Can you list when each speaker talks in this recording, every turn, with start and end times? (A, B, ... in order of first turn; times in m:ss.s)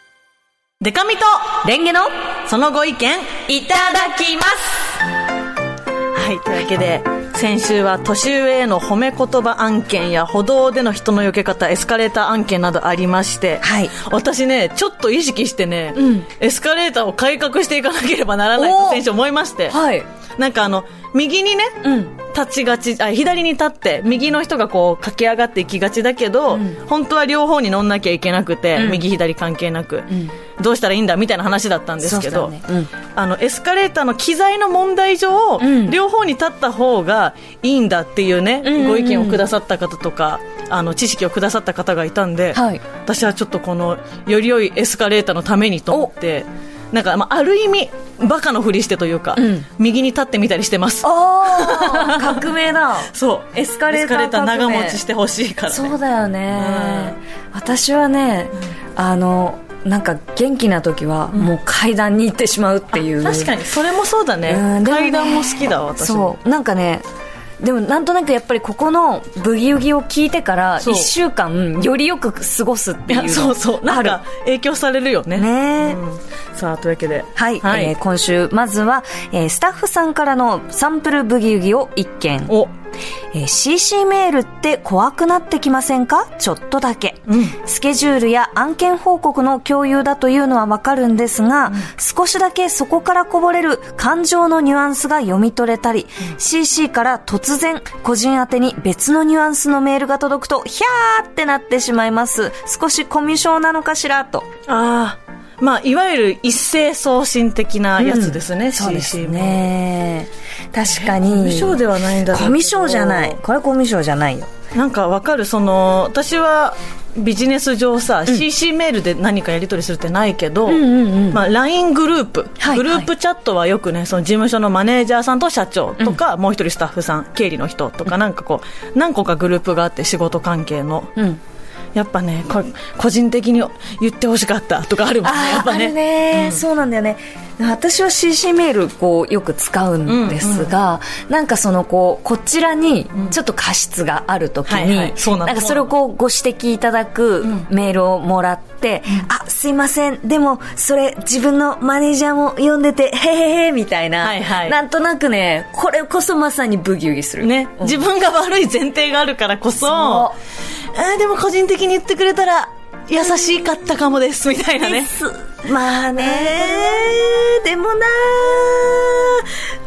0:00.8-0:01.6 A
0:01.6-0:02.1 B
0:02.5-0:03.4 A
0:03.5-0:04.8 B
0:06.1-0:19.8 A
0:13.6-0:13.9 B
0:16.0-0:16.3 B
0:18.6-0:19.0 B
0:19.7-0:20.1 B
0:20.4-0:32.6 A
0:21.8-0:22.1 B
0:26.5-0:26.8 B
0:28.8-0:29.0 B
0:32.0-0:32.9 B
0:33.2-0:52.4 A
0:35.6-0:36.0 B
0:38.6-0:39.4 B
0:42.5-0:42.8 B
0:49.4-0:49.7 B
0:51.0-0:55.0 B
0:53.1-0:56.0 A
0:55.7-1:03.5 B
0:56.5-0:57.2 A
1:03.0-1:06.4 A
1:04.5-1:07.1 B
1:07.6-1:14.2 B
1:10.8-1:11.1 A
1:13.1-1:17.9 A
1:15.4-1:16.0 B
1:17.4-1:22.6 B
1:23.3-1:44.5 B
1:27.3-1:27.6 A
1:44.7-1:49.6 A
1:48.0-1:54.5 B
1:50.9-1:53.4 A
1:54.7-2:11.2 A
2:00.7-2:01.4 B
2:02.6-2:03.1 B
2:11.2-2:11.4 B
2:12.0-2:16.6 A
2:15.2-2:38.0 B
2:20.1-2:20.7 A
2:24.7-2:25.9 A
2:34.2-2:34.8 A
2:37.4-2:40.3 A
2:39.9-2:40.4 B
2:40.9-2:45.1 A
2:44.8-2:49.4 B
2:46.2-2:47.3 A